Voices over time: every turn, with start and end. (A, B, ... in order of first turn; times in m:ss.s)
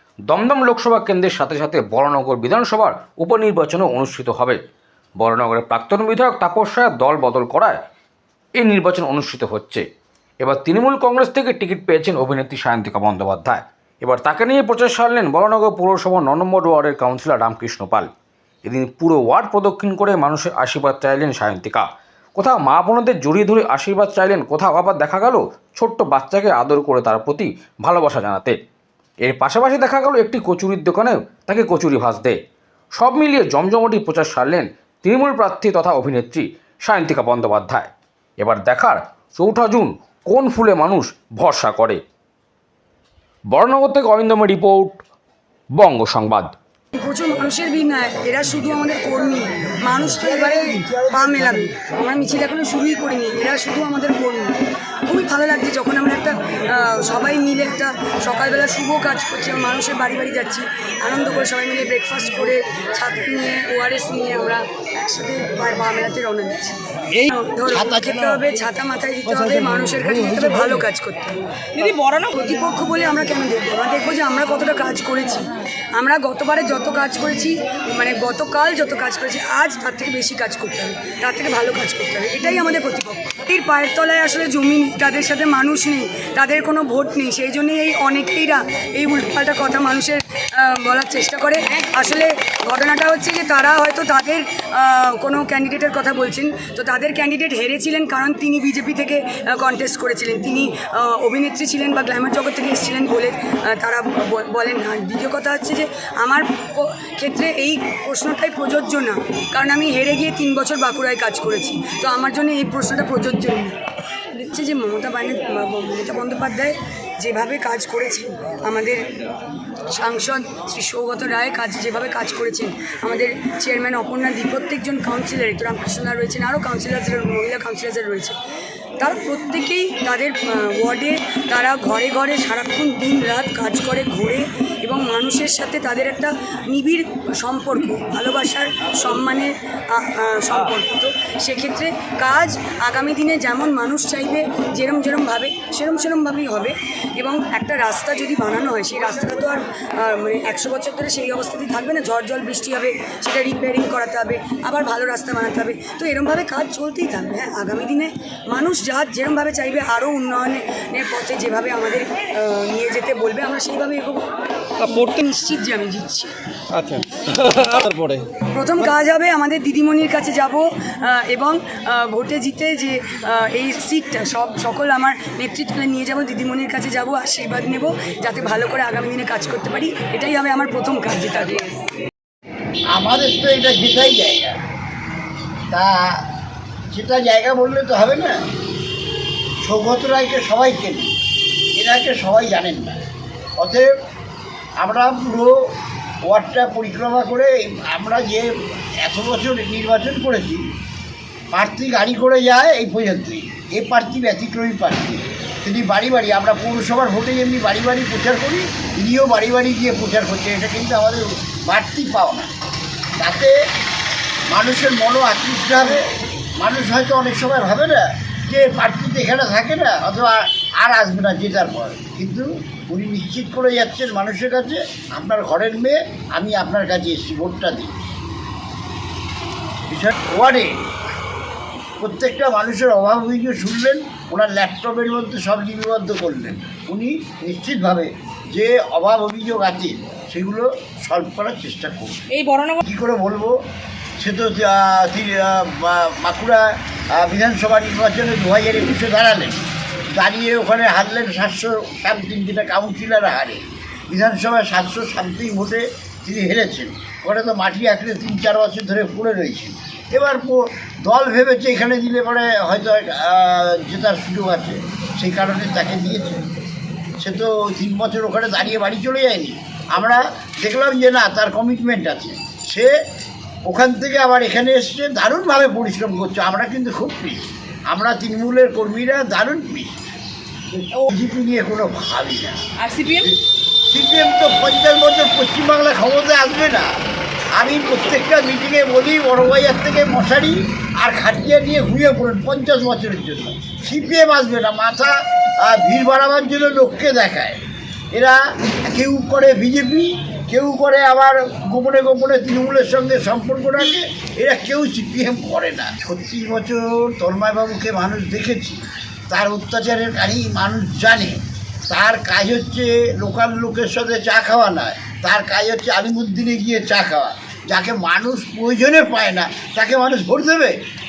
0:00.3-0:04.6 A
0:05.2-0:07.8 A
0:08.6-0:09.8 A
0:10.4-0:18.1 A
0:18.6-0:28.6 A
0:29.2-0:32.4 A
0:33.0-0:37.9 A
0:38.4-0:42.0 A
0:43.5-0:45.0 A
0:45.8-0:46.5 A
0:46.9-1:11.4 B
0:50.3-0:51.5 C
1:07.7-1:08.2 C
1:11.8-1:12.3 D
1:12.3-1:53.8 B
1:54.3-1:59.0 B
1:59.9-2:08.4 B
2:09.0-2:44.3 B
2:44.8-2:46.3 B
2:46.7-2:48.2 D
2:48.5-3:01.7 B
3:02.9-3:04.6 C
3:05.7-3:06.2 C
3:06.9-3:08.4 C
3:09.6-3:11.1 C
3:11.7-3:13.0 C
3:13.6-3:13.9 C
3:14.8-3:15.7 C
3:16.3-3:18.5 C
3:19.0-3:20.7 C
3:21.5-3:32.5 C
3:33.2-3:33.5 C
3:34.5-3:48.0 C
3:49.9-3:50.8 C
3:52.0-4:02.3 C
4:02.3-4:02.8 D
4:02.8-4:03.6 C
4:04.2-4:26.4 C
4:27.2-4:32.9 C
4:33.6-4:40.0 C
4:40.7-4:42.6 C
4:42.8-4:43.3 D
4:43.9-4:46.9 C
4:47.5-4:57.6 C
4:58.1-5:20.8 C